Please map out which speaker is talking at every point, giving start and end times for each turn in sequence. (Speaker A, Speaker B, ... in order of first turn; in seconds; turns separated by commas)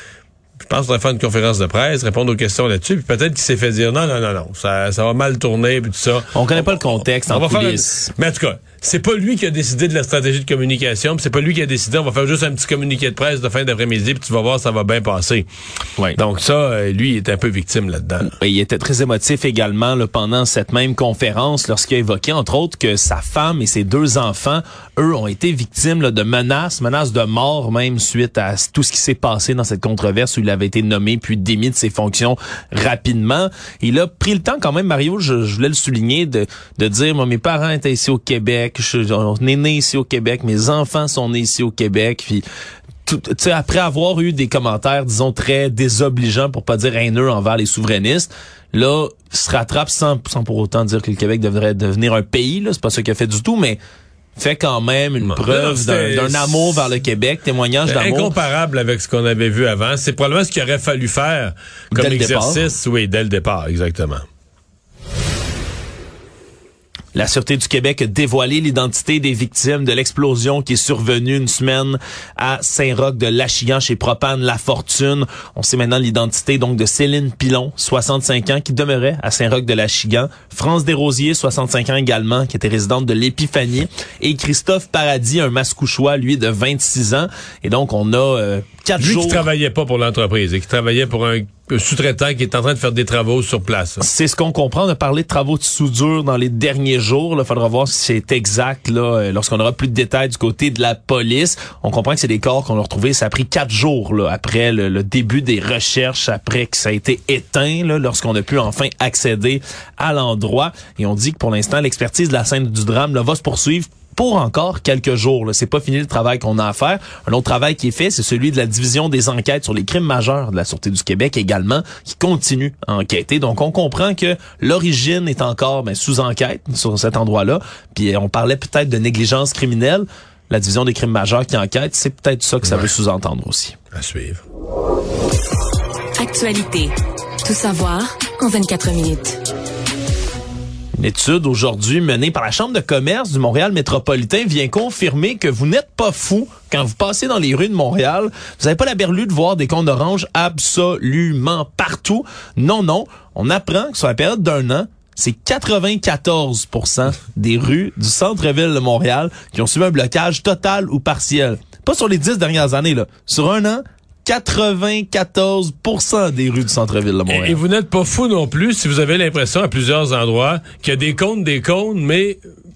Speaker A: 0.6-15.5, Speaker B: 6.3-8.1, Speaker A: 16.2-18.3, Speaker B: 18.4-42.4, Speaker B: 43.1-53.8, Speaker B: 54.4-58.4, Speaker A: 55.2-56.9, Speaker A: 57.9-64.2, Speaker B: 61.9-62.6, Speaker B: 67.1-89.5, Speaker A: 89.0-94.0, Speaker B: 94.0-133.8, Speaker A: 133.9-134.4, Speaker C: 136.2-136.9, Speaker C: 137.4-139.4, Speaker B: 140.9-167.6, Speaker A: 167.3-172.4